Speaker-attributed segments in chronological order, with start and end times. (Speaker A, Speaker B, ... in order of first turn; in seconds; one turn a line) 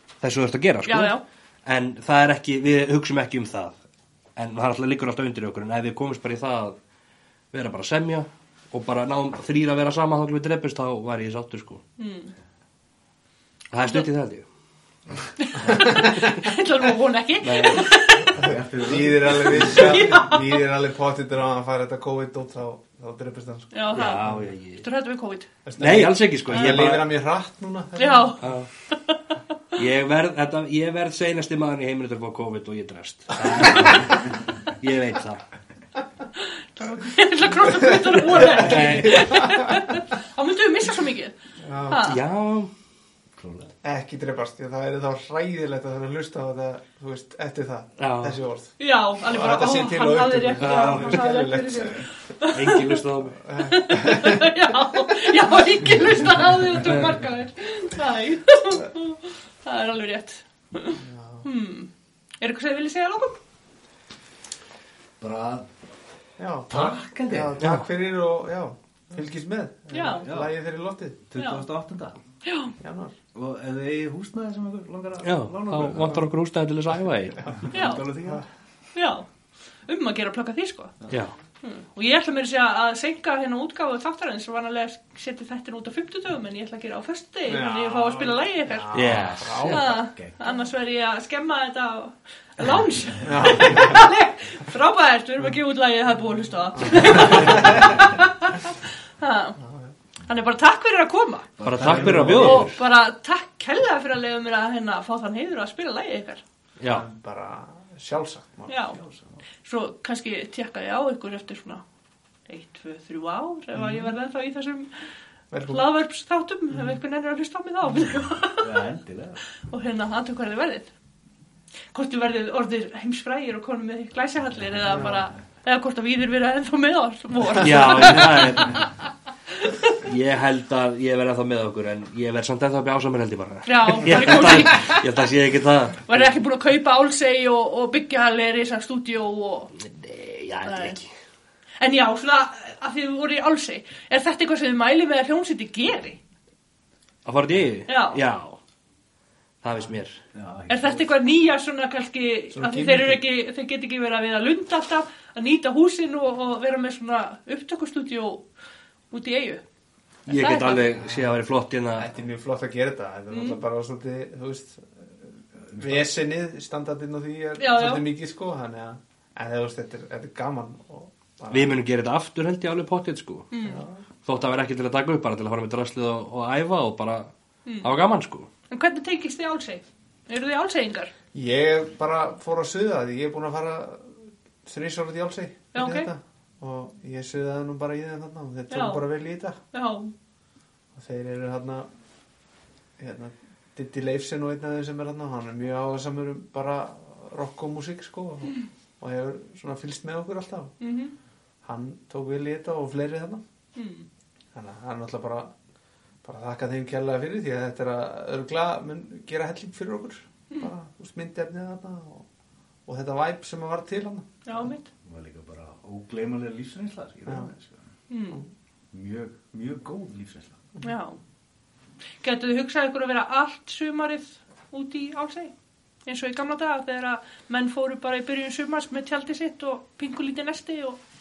Speaker A: 0.2-3.8
Speaker B: 0.9-1.2
Speaker A: 4.4-6.8
Speaker A: 7.5-11.8
Speaker B: 12.0-12.3
Speaker A: 13.7-14.4
Speaker B: 15.4-18.4
Speaker C: 15.6-16.4
Speaker A: 17.4-17.9
Speaker C: 18.4-24.5
Speaker D: 18.4-20.2
Speaker B: 19.5-20.6
Speaker B: 23.7-25.5
Speaker A: 23.9-24.9
Speaker C: 25.6-28.5
Speaker A: 25.8-27.1
Speaker B: 26.5-26.8
Speaker B: 28.0-29.4
Speaker A: 28.4-28.7
Speaker A: 29.8-35.4
Speaker B: 36.4-41.4
Speaker C: 37.6-39.8
Speaker A: 38.5-39.4
Speaker C: 41.6-42.1
Speaker B: 41.9-42.2
Speaker A: 42.0-42.7
Speaker D: 43.4-43.7
Speaker C: 43.8-52.1
Speaker A: 48.0-48.4
Speaker B: 48.8-53.0
Speaker A: 50.6-51.2
Speaker A: 52.5-53.4
Speaker C: 53.4-54.7
Speaker B: 53.6-63.4
Speaker C: 61.0-61.5
Speaker D: 65.2-65.7
Speaker C: 66.4-71.2
Speaker D: 66.7-67.7
Speaker A: 67.6-67.8
Speaker B: 69.9-70.3
Speaker D: 70.2-70.5
Speaker D: 71.3-72.2
Speaker B: 71.4-71.7
Speaker B: 72.4-72.8
Speaker C: 72.8-73.2
Speaker D: 73.3-76.2
Speaker A: 75.2-77.5
Speaker D: 77.5-78.5
Speaker B: 77.7-78.1
Speaker B: 78.9-79.3
Speaker B: 79.9-80.9
Speaker B: 81.6-88.9
Speaker C: 87.5-90.0
Speaker A: 88.9-89.8
Speaker D: 89.0-90.4
Speaker B: 89.7-99.6
Speaker C: 93.2-94.1
Speaker C: 96.8-98.1
Speaker C: 99.6-99.9
Speaker B: 100.3-101.5
Speaker D: 101.6-102.8
Speaker A: 101.6-102.8
Speaker B: 102.0-106.4
Speaker A: 106.8-107.1
Speaker C: 106.9-109.0
Speaker B: 108.7-109.0
Speaker D: 109.0-109.4
Speaker B: 109.7-111.8
Speaker B: 112.5-114.9
Speaker C: 113.8-114.1
Speaker C: 115.5-115.9
Speaker B: 115.7-118.8
Speaker D: 118.6-119.4
Speaker B: 119.7-120.9
Speaker B: 121.9-128.9
Speaker C: 124.9-125.2
Speaker A: 127.6-128.9
Speaker B: 129.6-129.9
Speaker A: 130.0-136.2
Speaker B: 133.7-135.0
Speaker B: 136.1-139.7
Speaker A: 139.8-141.1
Speaker B: 140.7-141.0
Speaker B: 141.8-146.2
Speaker A: 147.2-148.6
Speaker B: 147.9-148.2
Speaker A: 149.6-150.2
Speaker D: 150.3-151.1
Speaker B: 150.7-158.4
Speaker C: 152.5-153.2
Speaker B: 159.1-159.6
Speaker B: 160.3-160.9
Speaker A: 160.3-162.1
Speaker C: 161.0-161.4
Speaker C: 162.0-171.8
Speaker B: 163.3-163.6
Speaker D: 165.8-166.1
Speaker B: 167.6-168.1
Speaker A: 171.5-173.5
Speaker B: 173.5-173.8
Speaker C: 173.6-174.0
Speaker A: 174.2-178.5
Speaker B: 177.7-177.9
Speaker B: 178.7-181.1
Speaker C: 181.3-189.6
Speaker B: 185.7-186.1
Speaker B: 188.7-189.0
Speaker B: 189.7-190.1
Speaker C: 190.9-191.9
Speaker C: 193.0-200.8
Speaker B: 200.8-201.1
Speaker C: 201.6-203.4
Speaker B: 203.8-204.1
Speaker C: 204.6-205.5
Speaker C: 206.2-212.2
Speaker C: 212.9-214.3
Speaker B: 214.4-214.9
Speaker D: 215.0-217.9
Speaker B: 218.1-218.4
Speaker D: 218.9-220.6
Speaker B: 220.8-221.2
Speaker B: 222.2-225.5
Speaker B: 226.1-231.0